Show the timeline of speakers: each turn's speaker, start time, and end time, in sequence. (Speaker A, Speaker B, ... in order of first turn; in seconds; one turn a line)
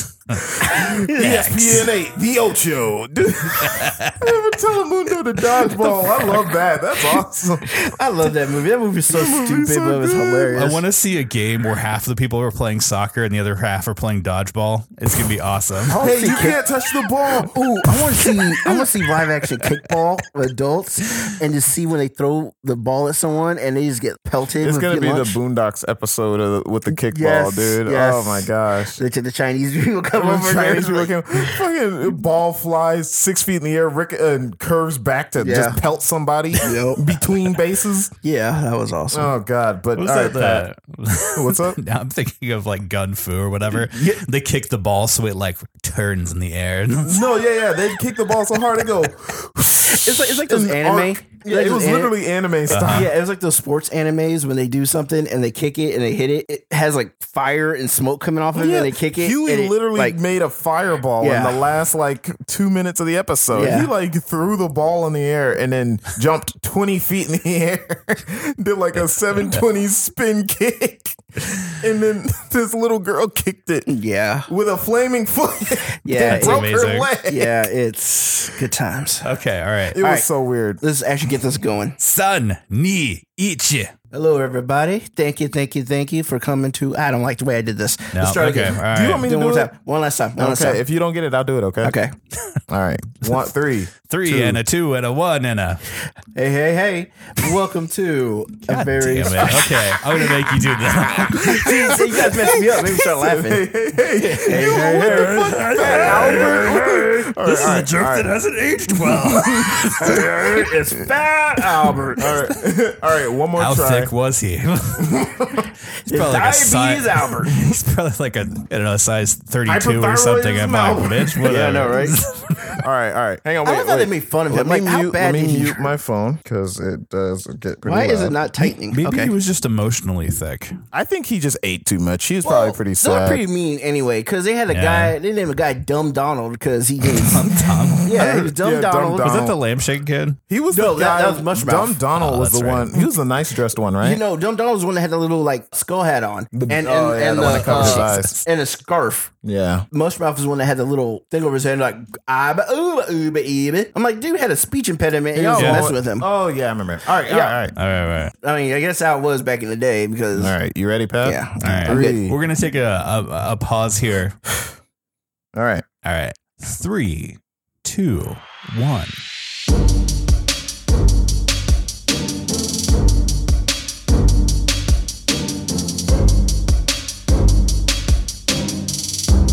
Speaker A: 0.3-7.8
Speaker B: 0.6-1.5
Speaker C: 1.1-1.9
Speaker C: 3.6-4.2
Speaker B: 7.7-10.8
Speaker A: 9.1-10.6
Speaker C: 10.5-16.0
Speaker A: 15.9-17.8
Speaker B: 15.9-16.6
Speaker B: 17.3-25.4
Speaker C: 18.2-19.0
Speaker A: 24.6-29.0
Speaker B: 26.9-31.6
Speaker A: 30.1-38.1
Speaker B: 35.4-35.8
Speaker B: 36.6-37.1
Speaker B: 38.2-39.3
Speaker A: 39.1-40.7
Speaker C: 40.0-47.2
Speaker A: 41.3-41.8
Speaker B: 43.7-44.2
Speaker A: 47.0-53.2
Speaker B: 49.8-52.1
Speaker B: 52.7-60.2
Speaker C: 52.7-53.1
Speaker A: 58.5-73.9
Speaker B: 61.2-61.6
Speaker B: 63.5-63.9
Speaker C: 68.9-69.6
Speaker B: 73.9-74.5
Speaker A: 74.5-77.7
Speaker B: 76.0-76.7
Speaker C: 76.2-77.1
Speaker B: 77.2-79.3
Speaker C: 79.2-80.0
Speaker A: 79.9-80.8
Speaker B: 80.0-80.3
Speaker B: 80.8-82.0
Speaker C: 82.0-83.9
Speaker B: 84.1-90.8
Speaker C: 88.1-89.3
Speaker A: 88.8-89.7
Speaker A: 90.4-91.9
Speaker B: 91.8-92.1
Speaker A: 92.7-94.6
Speaker C: 94.0-95.9
Speaker B: 96.3-99.7
Speaker C: 98.7-102.8
Speaker A: 99.4-108.3
Speaker B: 101.5-108.3
Speaker C: 104.4-106.8
Speaker C: 107.4-110.3
Speaker B: 109.0-112.5
Speaker A: 109.4-109.7
Speaker A: 112.2-114.1
Speaker C: 113.6-115.2
Speaker A: 115.1-115.6
Speaker B: 116.0-117.5
Speaker C: 116.0-122.7
Speaker A: 119.7-128.4
Speaker B: 121.5-122.2
Speaker B: 123.6-125.9
Speaker B: 127.8-129.3
Speaker C: 128.6-130.8
Speaker A: 130.9-133.4
Speaker B: 132.4-139.4
Speaker C: 134.7-135.2
Speaker C: 137.1-138.2
Speaker A: 137.9-139.6
Speaker C: 139.2-140.4
Speaker A: 140.5-144.2
Speaker B: 140.7-142.1
Speaker C: 142.1-142.9
Speaker B: 144.0-149.3
Speaker A: 146.5-148.3
Speaker C: 147.4-148.3
Speaker A: 149.4-149.9
Speaker B: 149.9-156.3
Speaker A: 155.3-157.7
Speaker C: 155.6-155.9
Speaker B: 157.2-157.6
Speaker C: 157.7-158.3
Speaker B: 158.4-160.5
Speaker A: 160.3-162.3
Speaker B: 161.2-162.2
Speaker C: 161.6-164.4
Speaker A: 165.5-165.8
Speaker C: 166.0-169.2